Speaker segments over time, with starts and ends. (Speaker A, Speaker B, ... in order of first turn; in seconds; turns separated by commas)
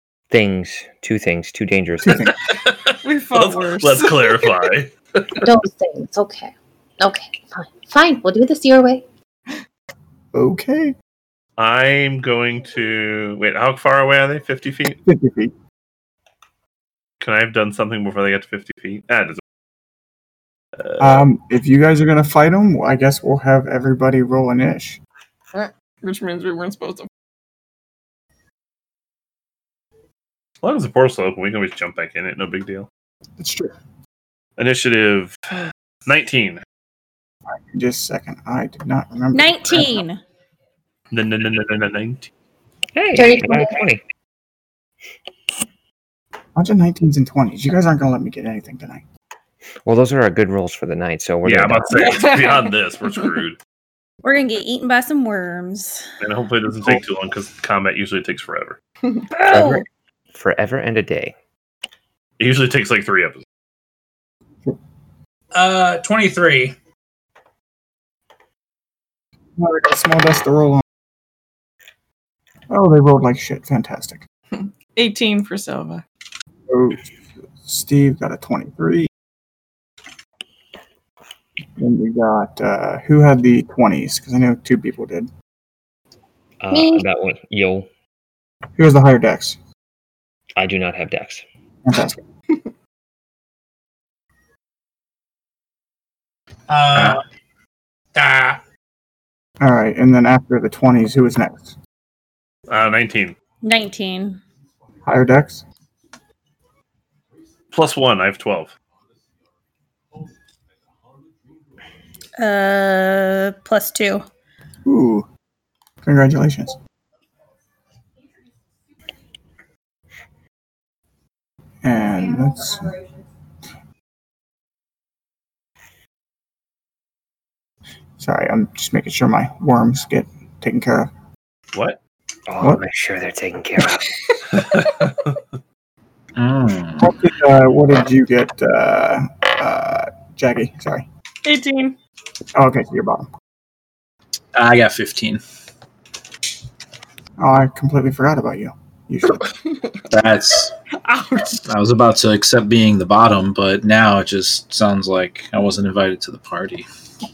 Speaker A: 0.3-2.3, Speaker B: 2.0-2.4, Speaker C: 2.5-5.5, Speaker D: 3.0-4.7, Speaker E: 5.4-9.0, Speaker B: 10.3-10.9, Speaker C: 11.6-15.0, Speaker B: 15.1-15.5, Speaker C: 17.2-19.4, Speaker C: 20.8-21.3, Speaker B: 21.0-25.0, Speaker D: 26.0-27.1, Speaker C: 30.6-32.9, Speaker B: 33.4-33.8, Speaker C: 34.6-35.4, Speaker C: 36.1-36.6, Speaker B: 37.7-40.0, Speaker F: 39.3-40.2, Speaker C: 41.1-42.3, Speaker A: 42.9-44.0, Speaker E: 43.1-43.8, Speaker B: 46.6-49.0, Speaker A: 49.9-52.2, Speaker C: 51.4-53.6, Speaker D: 51.9-52.8, Speaker F: 54.2-56.1, Speaker C: 56.2-58.8, Speaker F: 59.3-59.9, Speaker A: 59.5-61.4, Speaker C: 62.4-63.4, Speaker G: 65.5-66.8, Speaker B: 69.6-70.8, Speaker B: 72.7-74.2, Speaker D: 74.5-76.0, Speaker B: 76.7-77.0, Speaker B: 77.6-79.1, Speaker B: 81.8-85.3, Speaker A: 86.6-87.9, Speaker E: 86.7-87.0, Speaker B: 88.8-89.6, Speaker A: 90.6-91.5, Speaker B: 91.9-92.2, Speaker G: 96.7-97.2, Speaker G: 98.2-98.6, Speaker B: 99.6-101.8, Speaker C: 102.7-103.3, Speaker F: 103.6-104.4, Speaker B: 105.0-105.6, Speaker C: 107.7-108.7, Speaker F: 112.4-114.3, Speaker B: 114.8-115.3, Speaker B: 116.0-116.8, Speaker B: 121.8-123.0, Speaker B: 128.2-131.1, Speaker A: 132.5-134.4, Speaker C: 134.6-135.4, Speaker H: 136.4-137.2, Speaker B: 137.0-141.1, Speaker D: 141.4-142.0, Speaker B: 142.6-143.3, Speaker H: 144.6-145.4, Speaker B: 147.4-149.5, Speaker H: 150.1-150.7, Speaker D: 151.0-151.6, Speaker H: 151.6-156.9